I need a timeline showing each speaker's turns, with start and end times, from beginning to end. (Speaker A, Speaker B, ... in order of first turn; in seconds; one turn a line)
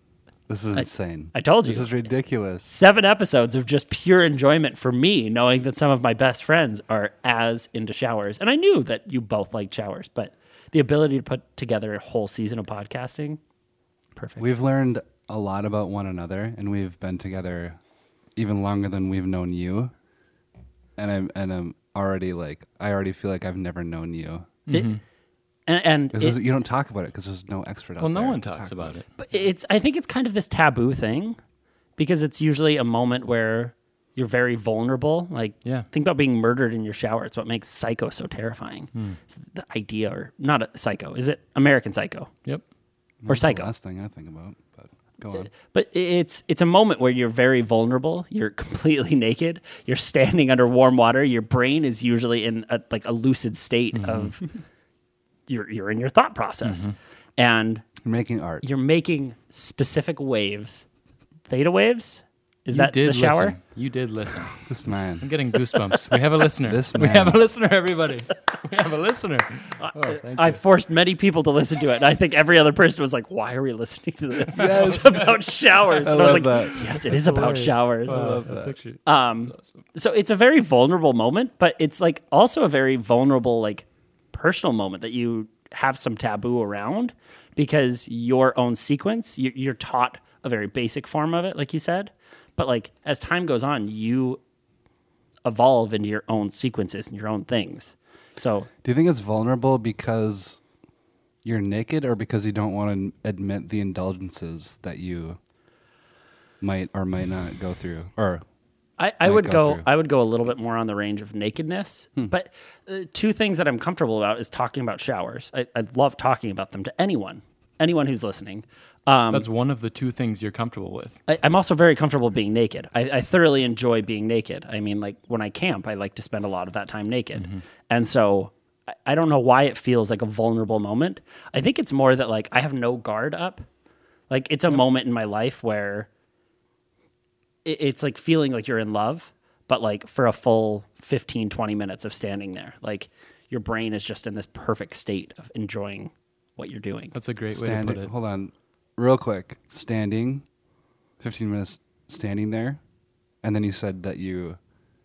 Speaker A: 0.5-2.7
Speaker B: 0.7-1.9
Speaker B: 2.6-13.4
Speaker B: 14.2-14.5
Speaker A: 14.4-17.8
Speaker A: 18.4-19.9
Speaker A: 21.0-24.6
Speaker C: 24.7-25.0
Speaker B: 24.7-25.0
Speaker B: 25.7-26.4
Speaker A: 26.1-28.9
Speaker C: 28.0-29.1
Speaker B: 29.2-31.4
Speaker B: 32.0-42.3
Speaker C: 38.9-39.2
Speaker A: 43.2-45.5
Speaker B: 43.3-43.7
Speaker B: 45.4-54.4
Speaker C: 53.9-54.4
Speaker B: 55.5-57.9
Speaker C: 56.6-56.9
Speaker A: 58.0-58.6
Speaker B: 58.6-60.9
Speaker B: 61.5-63.5
Speaker C: 62.7-64.6
Speaker A: 64.6-65.3
Speaker C: 65.2-70.6
Speaker A: 66.6-67.4
Speaker B: 69.8-78.4
Speaker A: 74.5-75.2
Speaker C: 74.6-74.8
Speaker A: 75.9-76.9
Speaker C: 76.7-79.7
Speaker A: 78.1-78.8
Speaker B: 79.0-94.4
Speaker B: 95.4-98.7
Speaker A: 98.8-100.6
Speaker A: 101.4-105.4
Speaker A: 106.6-108.4
Speaker B: 109.0-119.5
Speaker A: 109.2-109.8
Speaker C: 119.3-121.2
Speaker B: 121.3-128.5
Speaker C: 127.4-127.6
Speaker B: 129.0-133.6
Speaker B: 134.3-136.1
Speaker B: 137.6-147.1
Speaker C: 147.1-148.1
Speaker A: 147.5-150.4
Speaker A: 151.2-152.8
Speaker A: 153.4-154.6